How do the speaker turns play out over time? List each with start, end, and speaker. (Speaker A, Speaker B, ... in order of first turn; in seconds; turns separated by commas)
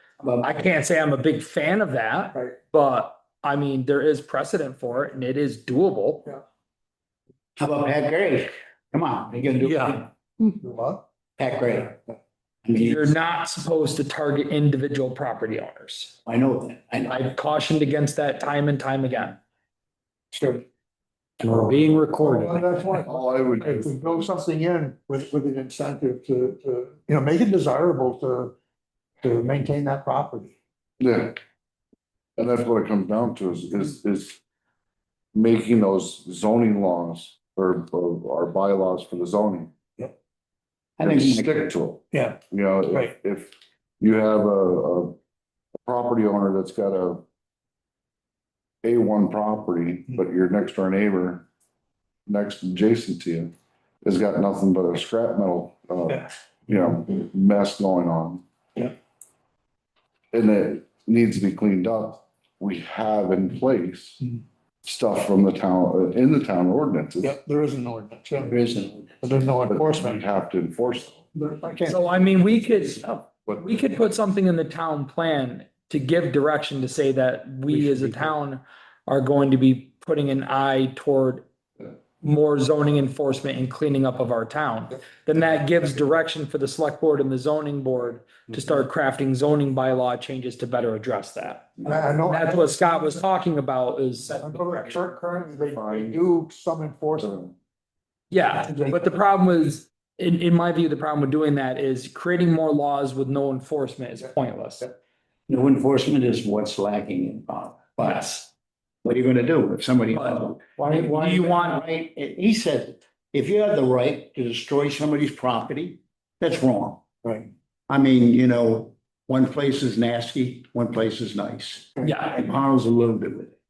Speaker A: 0.2-0.6, Speaker B: 0.4-6.3, Speaker A: 7.6-10.1, Speaker B: 9.6-10.0, Speaker C: 10.4-11.1, Speaker A: 11.4-12.0, Speaker A: 12.7-13.1, Speaker B: 12.8-16.1, Speaker A: 16.3-17.2, Speaker B: 17.1-19.4, Speaker C: 20.3-20.6, Speaker B: 21.4-22.6, Speaker C: 22.2-28.5, Speaker D: 23.1-24.2, Speaker C: 29.2-30.5, Speaker D: 31.0-31.4, Speaker D: 32.4-34.4, Speaker D: 35.3-39.7, Speaker A: 41.0-41.7, Speaker D: 41.0-45.1, Speaker C: 42.1-42.4, Speaker C: 42.9-43.1, Speaker D: 45.9-47.2, Speaker D: 48.8-51.5, Speaker D: 52.3-53.5, Speaker D: 54.0-58.4, Speaker D: 60.3-64.2, Speaker D: 64.8-67.3, Speaker C: 67.2-68.6, Speaker A: 68.4-69.4, Speaker C: 69.2-70.2, Speaker D: 69.7-71.2, Speaker C: 71.3-72.1, Speaker B: 71.8-81.5, Speaker B: 82.2-95.1, Speaker C: 91.8-93.2, Speaker C: 94.4-97.5, Speaker D: 95.6-96.2, Speaker D: 97.2-97.5, Speaker B: 98.3-104.9, Speaker C: 98.6-99.0, Speaker A: 105.5-108.5, Speaker B: 108.0-108.4, Speaker A: 109.0-117.2, Speaker B: 110.1-111.8, Speaker A: 117.9-123.6, Speaker B: 122.0-122.4